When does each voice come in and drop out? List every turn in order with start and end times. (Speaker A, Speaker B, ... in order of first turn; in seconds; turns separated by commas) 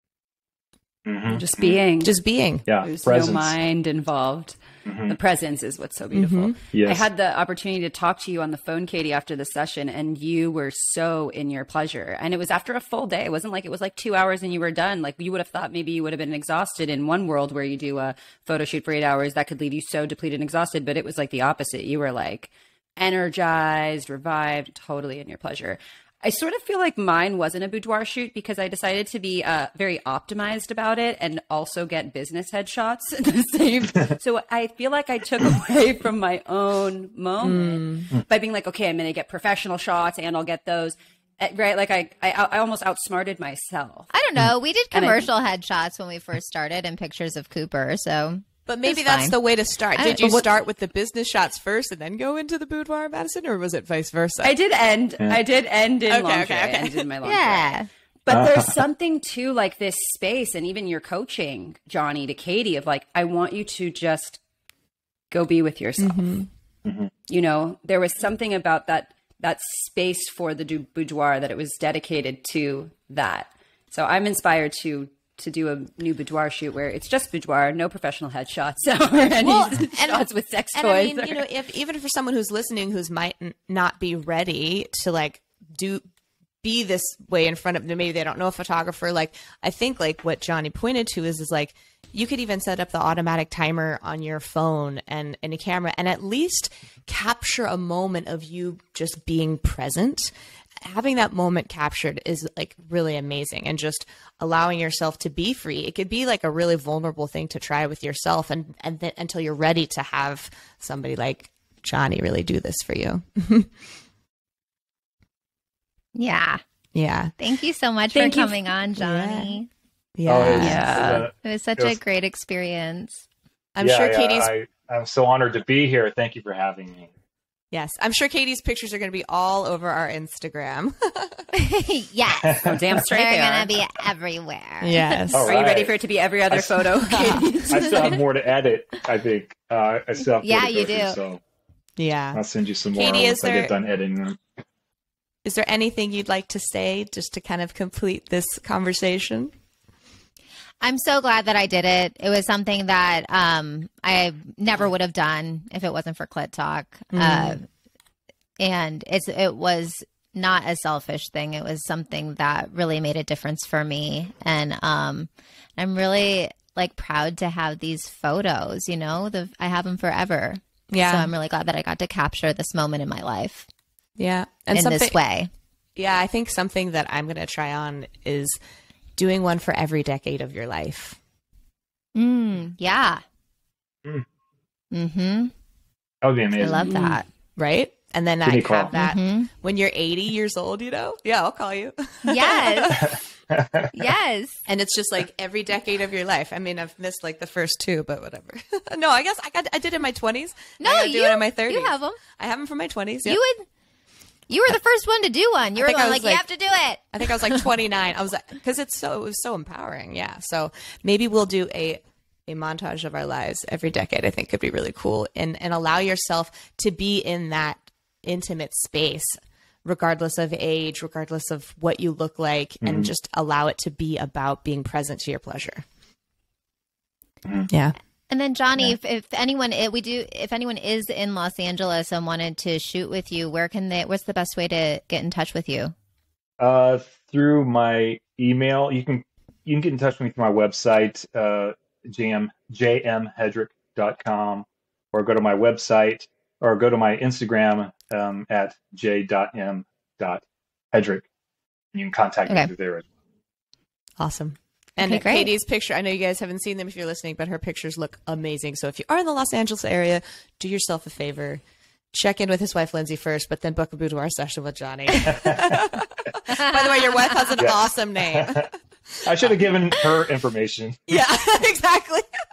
Speaker A: 1.1-1.8, Speaker B: 1.3-2.1, Speaker C: 2.0-2.6, Speaker A: 2.7-3.5, Speaker B: 2.8-44.1, Speaker A: 4.9-5.2, Speaker C: 6.1-6.5, Speaker A: 6.7-7.0, Speaker C: 37.4-38.1, Speaker D: 44.1-49.4, Speaker B: 44.9-45.3, Speaker C: 48.7-54.5, Speaker D: 49.9-50.5, Speaker B: 54.4-64.4, Speaker C: 56.1-57.1, Speaker D: 57.2-57.9, Speaker A: 58.3-58.8, Speaker B: 65.3-66.4, Speaker C: 66.0-66.5, Speaker A: 66.8-67.1, Speaker B: 67.3-81.5, Speaker C: 79.2-86.0, Speaker C: 86.6-113.8, Speaker D: 116.2-116.6, Speaker C: 116.9-117.3, Speaker D: 117.4-119.7, Speaker C: 118.1-119.6, Speaker C: 120.2-121.2, Speaker A: 120.3-122.0, Speaker B: 120.5-121.3, Speaker D: 120.9-123.2, Speaker C: 123.8-124.5, Speaker A: 123.8-127.1, Speaker C: 127.7-131.5, Speaker D: 131.6-135.5, Speaker A: 132.4-133.0, Speaker B: 132.6-133.7, Speaker C: 134.8-135.5, Speaker A: 135.3-135.9, Speaker B: 135.5-138.2, Speaker A: 136.5-141.4, Speaker C: 137.1-138.1, Speaker D: 140.4-141.2, Speaker C: 142.0-142.4, Speaker A: 142.3-144.4, Speaker C: 142.9-143.7, Speaker C: 145.4-149.5, Speaker D: 150.8-157.7, Speaker C: 157.1-157.6, Speaker D: 158.6-173.7, Speaker C: 170.9-171.3, Speaker C: 174.2-175.2, Speaker D: 174.7-175.5, Speaker C: 176.0-178.6, Speaker C: 179.2-181.2, Speaker D: 182.2-183.2, Speaker D: 184.9-185.5, Speaker A: 186.2-186.9, Speaker D: 186.6-187.3, Speaker B: 186.8-187.2, Speaker C: 187.6-193.1, Speaker A: 188.4-188.9, Speaker D: 188.9-189.5, Speaker D: 192.3-193.2, Speaker A: 192.9-193.9, Speaker D: 193.9-194.7, Speaker C: 194.7-203.4, Speaker D: 200.8-202.2, Speaker D: 203.2-203.7, Speaker D: 204.5-207.7, Speaker C: 205.8-206.5, Speaker C: 207.1-225.8, Speaker A: 222.8-223.1, Speaker C: 227.7-227.9, Speaker D: 228.3-235.9, Speaker A: 236.6-251.2, Speaker A: 251.9-253.1, Speaker C: 254.2-261.6, Speaker D: 255.0-255.5, Speaker C: 262.1-269.7, Speaker A: 265.2-265.9, Speaker A: 267.6-268.7, Speaker A: 269.2-271.2, Speaker C: 271.1-272.3